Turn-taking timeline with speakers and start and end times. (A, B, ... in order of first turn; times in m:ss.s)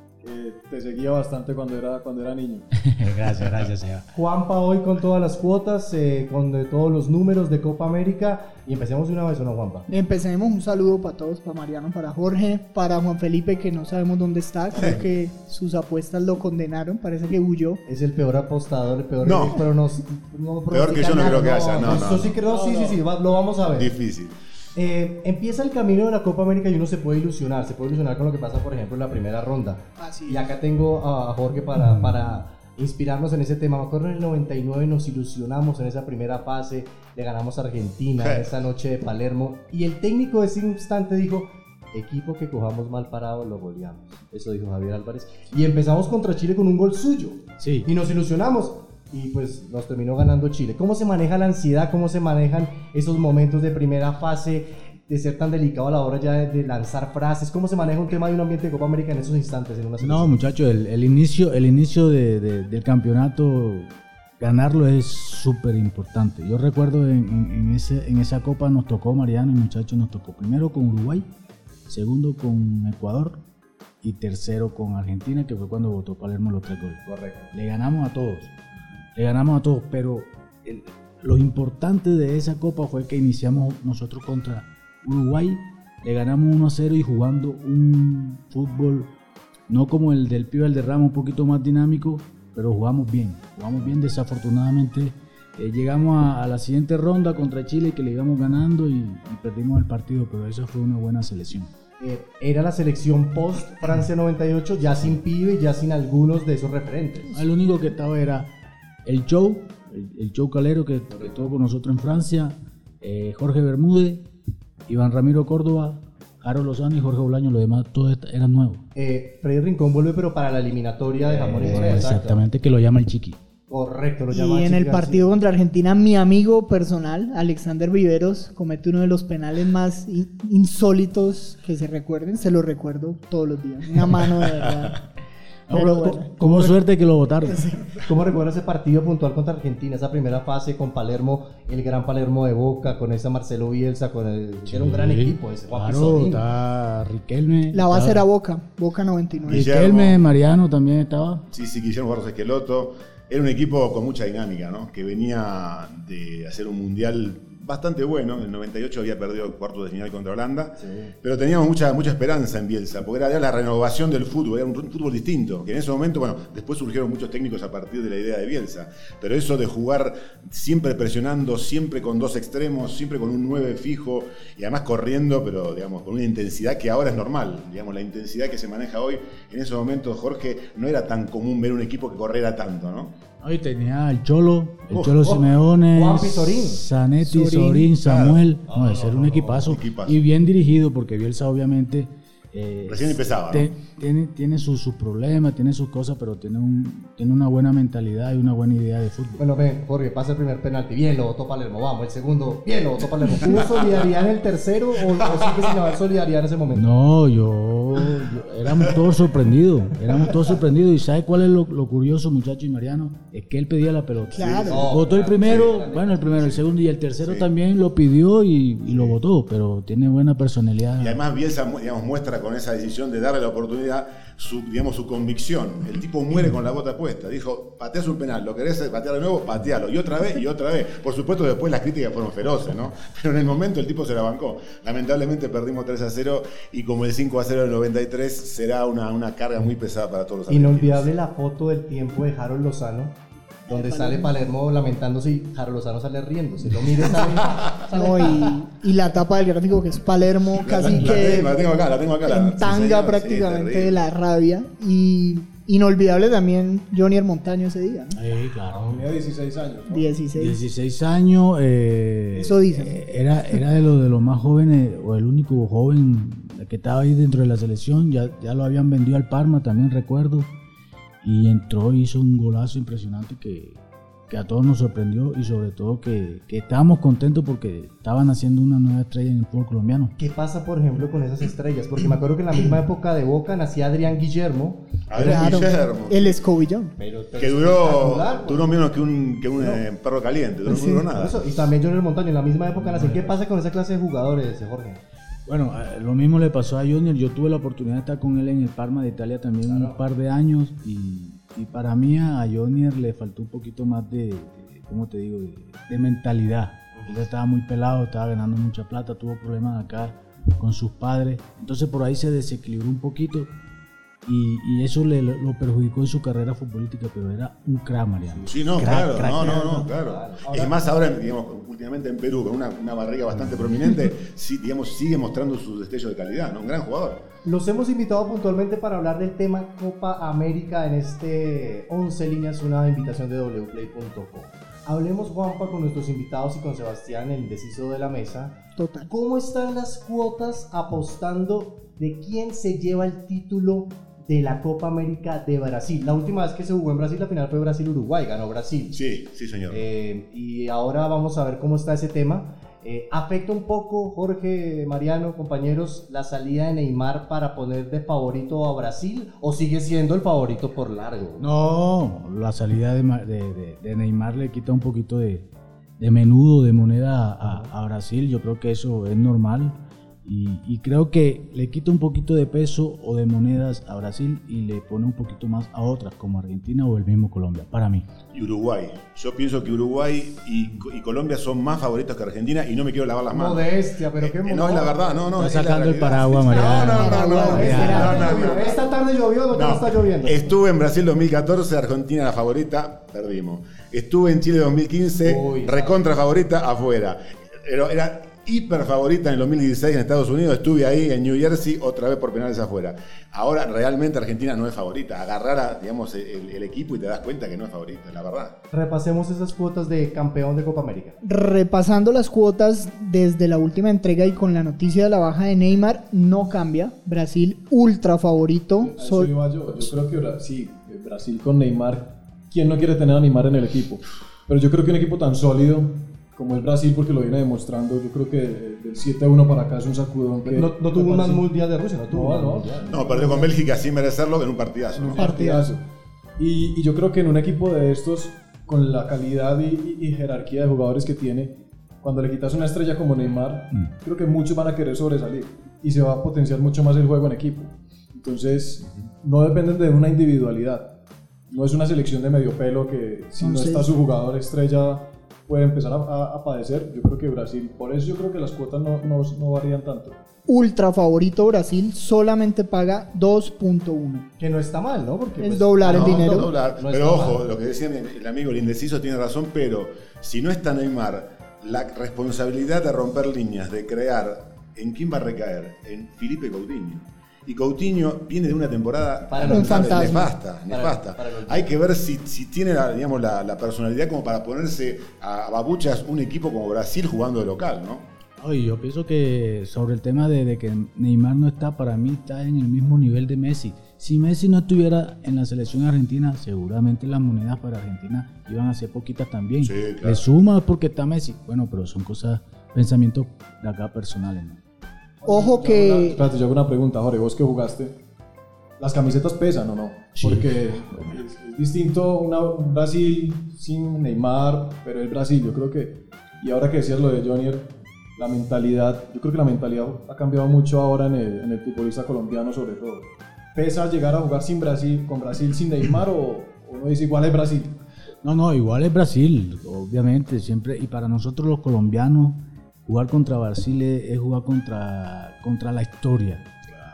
0:00.2-0:02.7 A
0:02.8-0:04.0 B
0:04.1-0:09.9 C
0:09.9-0:17.8 D
0:14.7-0:15.0 E
0:17.8-0:23.9 C
0:19.2-0:19.6 E
0:20.7-0:22.3 E
0:22.5-0:23.0 A
0:23.7-0:24.4 E
0:24.7-1:00.3 C
0:30.0-0:30.4 D
0:38.2-0:38.5 E
0:47.6-0:47.9 B
1:00.0-1:11.3 B
1:11.9-1:13.4 B
1:14.0-1:17.0 B
1:17.0-1:17.5 C
1:17.5-1:18.5 B
1:19.1-1:29.1 B
1:29.7-1:41.7 B
1:42.0-1:47.3 C
1:47.3-1:48.5 B
1:49.0-1:54.2 B
1:54.9-1:58.8 B
1:58.9-2:02.4 C
2:01.4-2:03.4 B
2:03.7-2:05.3 C
2:04.3-2:15.0 D
2:15.7-2:17.6 B
2:15.7-2:16.7 D
2:17.4-2:18.0 D
2:18.0-2:26.4 C
2:24.7-2:28.2 B
2:27.7-2:29.7 D
2:29.4-2:30.2 E
2:29.5-2:31.4 B
2:31.5-3:03.1 E
2:40.8-2:41.1 C
3:03.4-3:19.4 B
3:04.9-3:05.3 E
3:05.2-3:06.8 C
3:07.2-3:07.9 D
3:08.0-3:08.4 E
3:08.7-3:09.6 C
3:09.6-3:10.2 E
3:12.8-3:13.7 E
3:19.4-3:26.9 C
3:26.7-3:41.2 B
3:34.3-3:34.9 D
3:34.4-3:35.8 E
3:34.7-3:36.6 C
3:37.2-3:37.5 E
3:38.9-3:39.1 E
3:41.0-4:01.1 E
4:00.5-4:03.2 C
4:03.7-4:08.4 C
4:03.7-4:04.3 D
4:07.1-4:07.9 E
4:07.9-4:11.7 D
4:10.6-4:14.1 E
4:10.8-4:11.1 B
4:12.2-4:18.2 D
4:18.1-4:19.1 B
4:18.7-4:20.1 A
4:19.9-4:20.6 D
4:20.3-4:30.5 B
4:22.3-4:23.0 D
4:31.2-4:40.1 B
4:40.2-4:45.7 C
4:45.1-4:46.4 E
4:45.2-4:47.0 D
4:47.0-4:48.7 C
4:47.4-4:51.4 E
4:49.6-4:49.8 C
4:50.6-4:55.0 C
4:50.7-4:51.0 D
4:52.8-4:53.3 B
4:55.4-5:13.5 B
4:59.6-5:00.0 C
5:14.2-5:19.9 B
5:18.3-5:18.6 C
5:18.5-5:27.2 E
5:19.4-5:20.8 C
5:27.4-5:49.0 C
5:38.8-5:39.1 D
5:48.9-5:49.8 E
5:49.7-6:01.4 C
6:01.4-6:05.5 B
6:06.0-6:18.1 B
6:07.4-6:07.7 C
6:18.3-6:28.8 E
6:23.3-6:25.2 C
6:25.4-6:28.2 B
6:26.5-6:30.5 C
6:26.8-6:28.6 D
6:29.5-6:48.5 E
6:35.2-6:36.0 C
6:48.7-6:51.2 C
6:51.2-6:59.3 D
6:58.8-7:11.5 A
7:10.4-7:13.5 C
7:12.1-7:12.9 A
7:12.9-7:15.3 E
7:14.9-7:15.8 A
7:15.2-7:15.7 D
7:16.4-7:30.9 A
7:31.5-7:40.2 A
7:33.4-7:33.9 D
7:40.5-7:44.2 D
7:44.4-7:47.4 C
7:45.4-7:46.5 D
7:45.9-8:08.1 E
7:59.3-8:01.7 C
7:59.4-8:00.3 D
8:08.4-8:24.6 B
8:19.6-8:20.2 E
8:25.2-8:28.0 A
8:25.2-8:26.2 D
8:28.8-8:47.8 A
8:30.2-8:30.5 B
8:48.2-8:56.5 B